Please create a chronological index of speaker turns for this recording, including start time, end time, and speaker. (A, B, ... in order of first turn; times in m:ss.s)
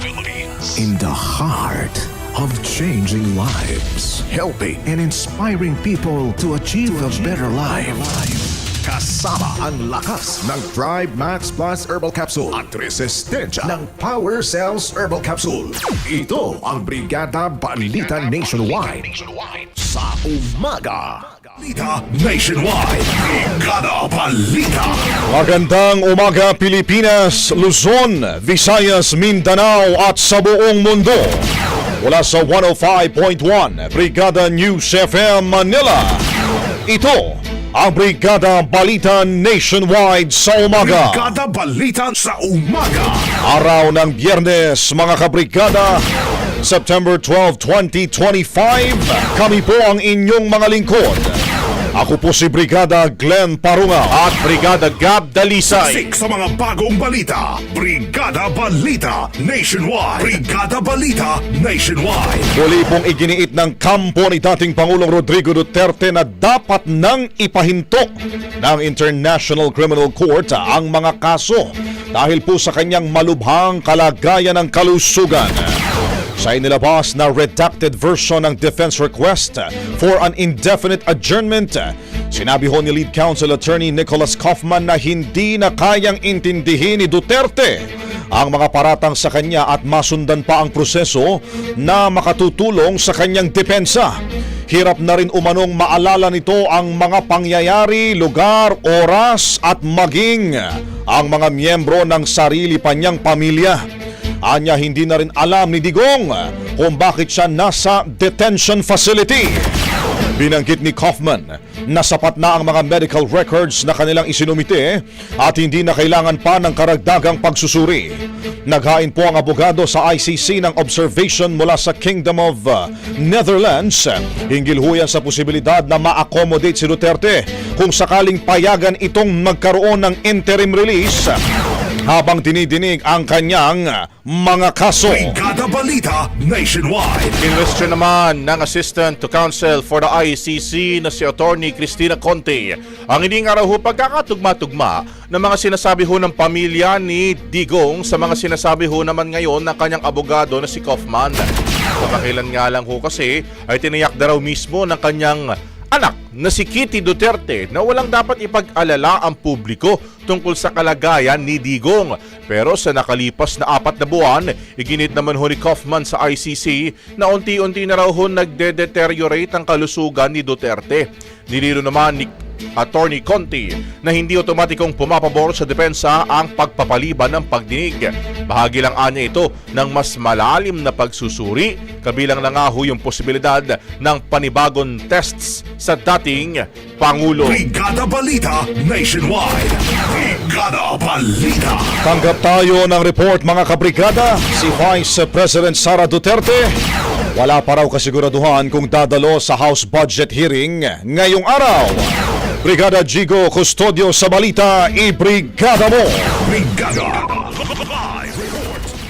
0:00.7-0:21.3 A
0:21.6-0:25.1 B
0:25.3-0:31.5 C
0:32.0-0:36.2 C
0:36.9-0:41.3 C
0:40.7-0:43.3 B
0:43.4-0:46.0 C
0:46.6-0:51.4 C
0:52.0-0:54.2 C
0:54.1-0:56.0 D
0:55.7-1:02.5 B
1:02.5-1:15.8 C
1:16.4-1:34.1 C
1:34.7-1:43.8 C
1:44.4-1:49.7 C
1:50.4-1:58.1 C
1:58.7-2:11.4 C
2:12.1-2:15.4 C
2:15.1-2:17.4 B
2:17.4-2:31.4 D
2:32.0-3:07.6 D
3:07.4-3:12.0 B
3:12.0-3:16.8 C
3:17.4-3:22.1 C
3:22.6-3:26.3 C
3:26.4-3:28.9 B